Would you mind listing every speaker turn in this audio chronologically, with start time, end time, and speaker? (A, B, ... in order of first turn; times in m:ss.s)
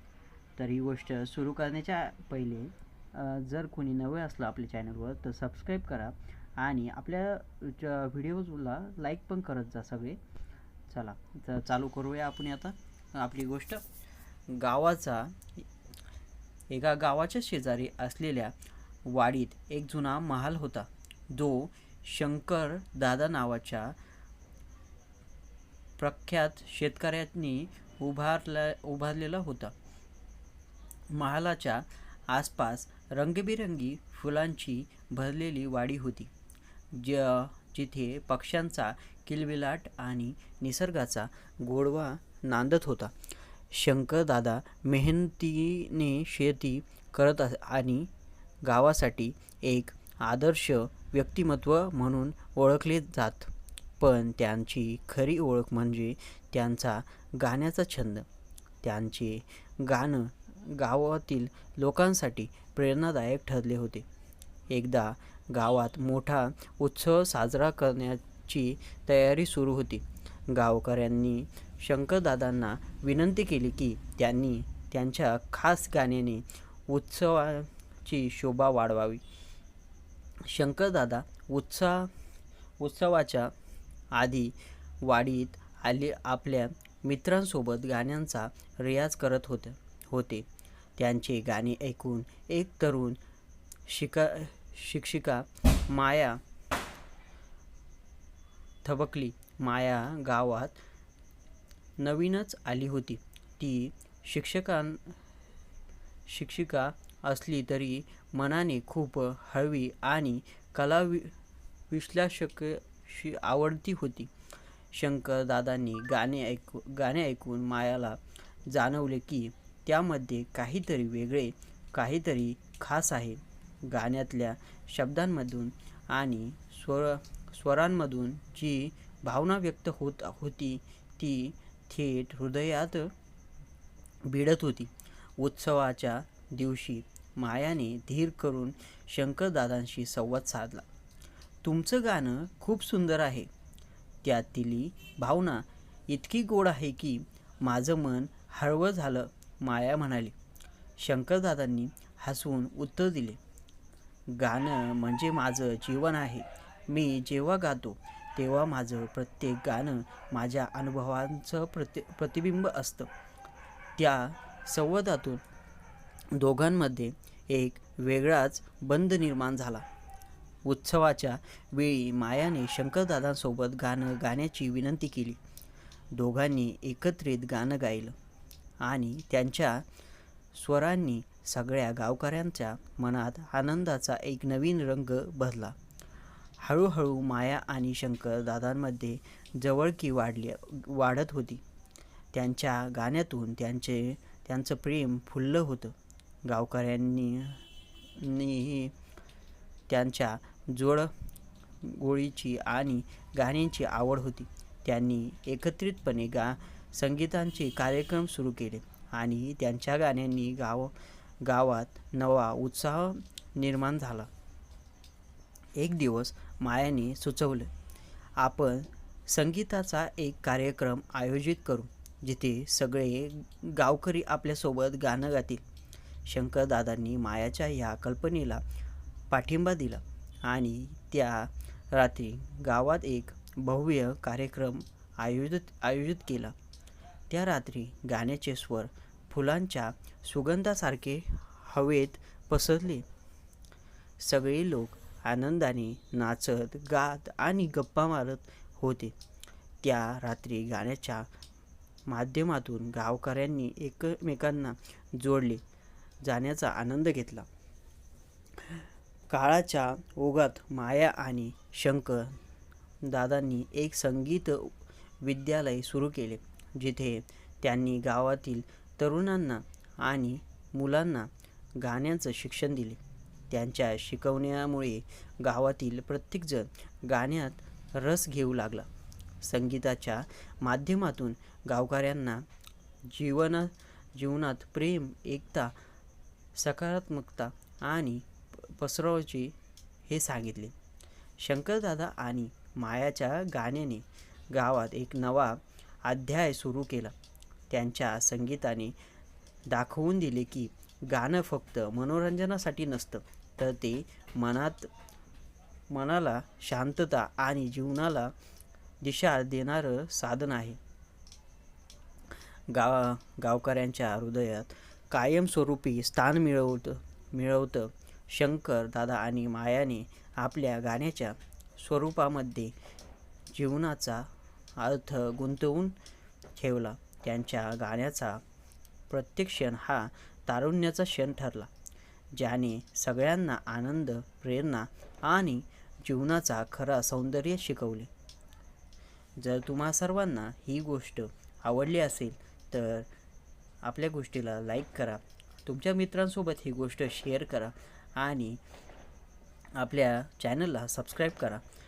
0:00.6-0:10.2 A
0:10.9-0:13.8 A
0:14.5-0:15.6 A
0:16.7-0:24.0 A
0:26.0-0:29.7 A
0:31.1-0:36.3 A
0:36.9-0:43.1 A
0:43.7-0:48.1 A
0:48.6-0:58.2 A
0:58.8-1:04.0 A
1:04.7-1:19.2 A
1:20.4-1:22.1 A
1:22.8-1:23.5 A
1:24.1-1:30.4 A
1:31.0-1:33.2 A
1:33.9-1:36.4 A
1:38.8-1:40.8 A
1:42.0-1:45.1 A
1:46.3-1:51.3 A
1:51.9-1:54.3 A
1:54.9-2:13.1 A
2:14.2-2:20.8 A
2:21.6-2:23.5 A
2:24.2-2:30.3 A
2:31.0-2:33.4 A
2:34.3-2:43.1 A
2:44.0-2:45.4 A
2:46.3-2:49.8 A
2:50.6-2:55.4 A
2:56.1-2:58.2 A
2:58.8-2:59.8 A
3:00.5-3:05.8 A
3:06.6-3:11.6 A
3:12.3-3:17.6 A
3:18.2-3:18.9 A
3:19.9-3:21.1 A
3:21.8-3:34.3 A
3:35.8-3:37.7 A
3:38.4-3:45.6 A
3:46.2-3:48.6 A
3:49.3-3:56.5 A
3:57.3-4:03.0 A
4:04.2-4:09.1 A
4:09.8-4:11.3 A
4:12.1-4:15.6 A
4:16.2-4:17.5 A
4:18.6-4:22.4 A
4:23.0-4:38.9 A
4:39.4-4:42.4 A
4:43.1-4:45.8 A
4:46.5-4:49.6 A
4:50.1-4:50.7 A
4:51.4-4:57.1 A
4:57.7-4:59.0 A
4:59.7-5:04.9 A
5:05.9-5:08.3 A
5:09.0-5:10.8 A
5:12.7-5:22.7 A
5:23.5-5:26.0 A
5:26.5-5:28.4 A
5:29.1-5:31.7 A
5:32.3-5:38.1 A
5:39.4-5:43.1 A
5:43.8-5:48.6 A
5:49.8-5:51.6 A